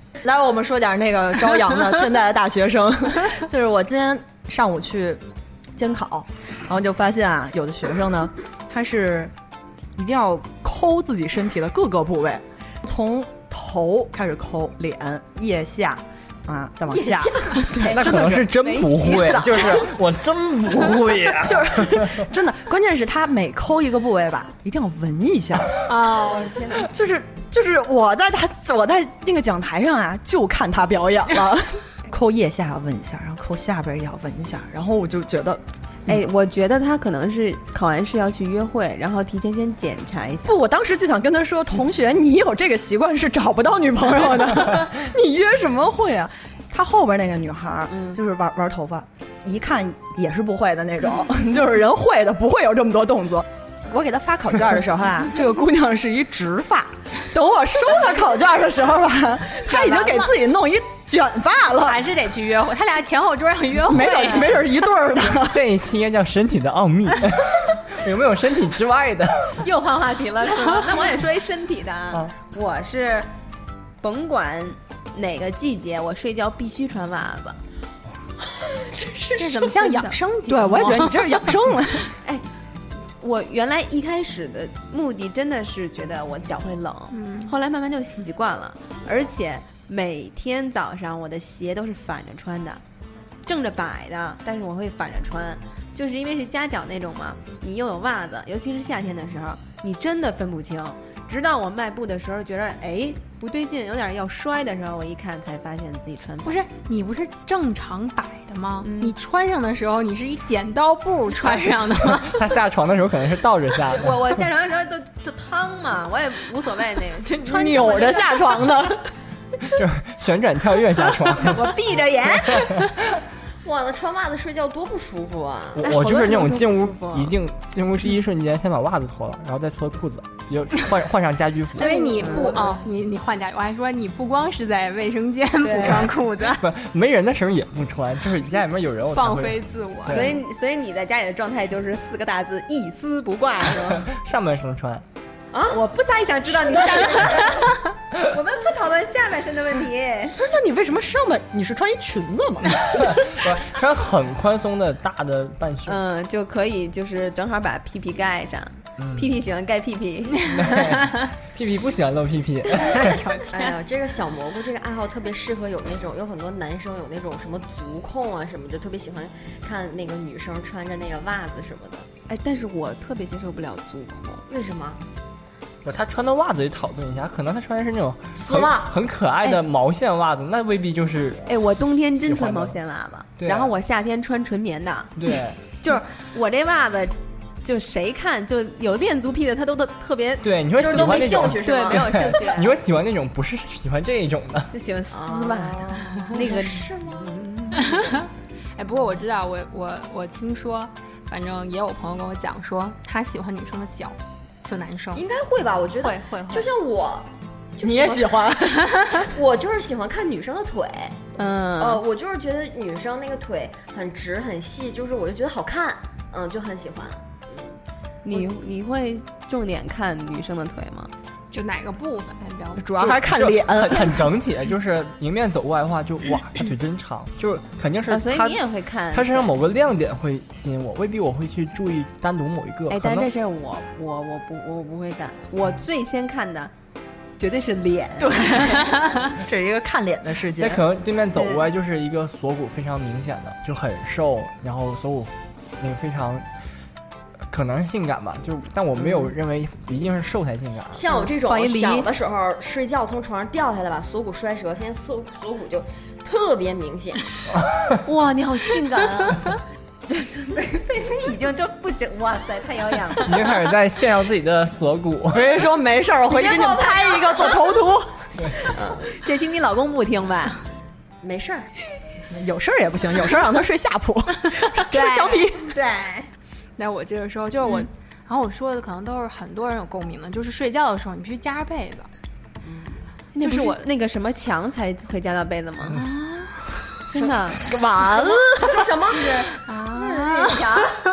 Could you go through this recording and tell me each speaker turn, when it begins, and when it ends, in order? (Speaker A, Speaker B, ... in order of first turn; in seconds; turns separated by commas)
Speaker A: 0.2-5.2, Speaker A: 5.8-9.3, Speaker A: 10.0-18.4, Speaker B: 16.9-17.8, Speaker C: 17.8-19.9, Speaker D: 17.9-22.2, Speaker A: 19.4-19.9, Speaker A: 21.4-26.1, Speaker E: 25.9-26.6, Speaker C: 26.0-26.9, Speaker A: 26.8-36.1, Speaker C: 36.1-40.5, Speaker A: 40.5-62.0, Speaker C: 47.9-48.2, Speaker E: 61.8-64.6, Speaker A: 63.9-65.6, Speaker D: 65.5-69.7, Speaker C: 69.6-73.3, Speaker C: 74.0-77.6, Speaker E: 79.4-81.3, Speaker C: 79.8-80.2, Speaker A: 80.5-82.1, Speaker C: 82.1-82.4, Speaker C: 83.2-92.8, Speaker E: 87.1-87.5, Speaker C: 93.4-106.6, Speaker E: 106.4-112.4, Speaker C: 108.8-109.1, Speaker D: 112.0-114.4, Speaker C: 113.9-118.7, Speaker A: 117.2-119.1, Speaker D: 119.7-123.2, Speaker C: 121.3-122.9, Speaker B: 123.6-125.9, Speaker D: 125.8-131.9, Speaker C: 125.8-127.3, Speaker E: 131.8-136.6, Speaker B: 131.8-132.7, Speaker C: 131.9-132.6, Speaker C: 135.6-136.1, Speaker D: 135.9-140.4, Speaker E: 139.1-140.4, Speaker C: 140.1-144.1, Speaker D: 143.7-145.0, Speaker B: 145.5-145.8, Speaker C: 145.7-150.4, Speaker A: 150.3-153.4, Speaker D: 152.8-156.0, Speaker C: 155.9-160.8, Speaker D: 159.0-159.4, Speaker D: 160.4-163.2, Speaker E: 162.8-163.7, Speaker B: 163.5-172.1, Speaker C: 172.3-174.4, Speaker B: 174.5-175.0, Speaker D: 175.8-181.4, Speaker B: 178.3-178.9, Speaker C: 181.5-192.6, Speaker D: 182.2-182.8, Speaker D: 183.4-183.8, Speaker D: 185.2-185.7, Speaker D: 190.4-194.7, Speaker B: 190.8-192.8, Speaker C: 194.7-198.2, Speaker B: 195.1-197.3, Speaker E: 197.7-205.2, Speaker B: 205.1-208.5, Speaker C: 206.1-206.7, Speaker A: 207.8-209.3, Speaker B: 209.2-217.8, Speaker C: 211.4-212.0, Speaker C: 218.2-221.1, Speaker E: 221.5-223.2, Speaker A: 222.8-224.3, Speaker D: 223.2-233.3, Speaker C: 228.1-229.6, Speaker C: 232.9-236.7, Speaker C: 237.4-238.9, Speaker A: 238.2-240.8, Speaker D: 240.6-246.4, Speaker C: 241.3-241.7, Speaker D: 247.5-251.0, Speaker B: 250.9-257.2, Speaker C: 251.1-252.1, Speaker D: 257.5-258.0, Speaker C: 258.0-259.6, Speaker C: 260.1-263.6, Speaker D: 263.2-265.5, Speaker A: 265.3-268.5, Speaker B: 266.3-267.7, Speaker B: 268.7-269.1, Speaker C: 269.0-270.6, Speaker B: 271.2-271.7, Speaker A: 272.3-275.8, Speaker C: 274.8-276.3, Speaker E: 276.8-282.1, Speaker B: 282.6-283.0, Speaker C: 283.4-286.0, Speaker E: 283.4-283.9, Speaker E: 285.9-287.0, Speaker C: 287.1-287.6, Speaker A: 287.1-288.8, Speaker B: 288.5-289.5, Speaker C: 289.1-291.0, Speaker E: 289.6-290.6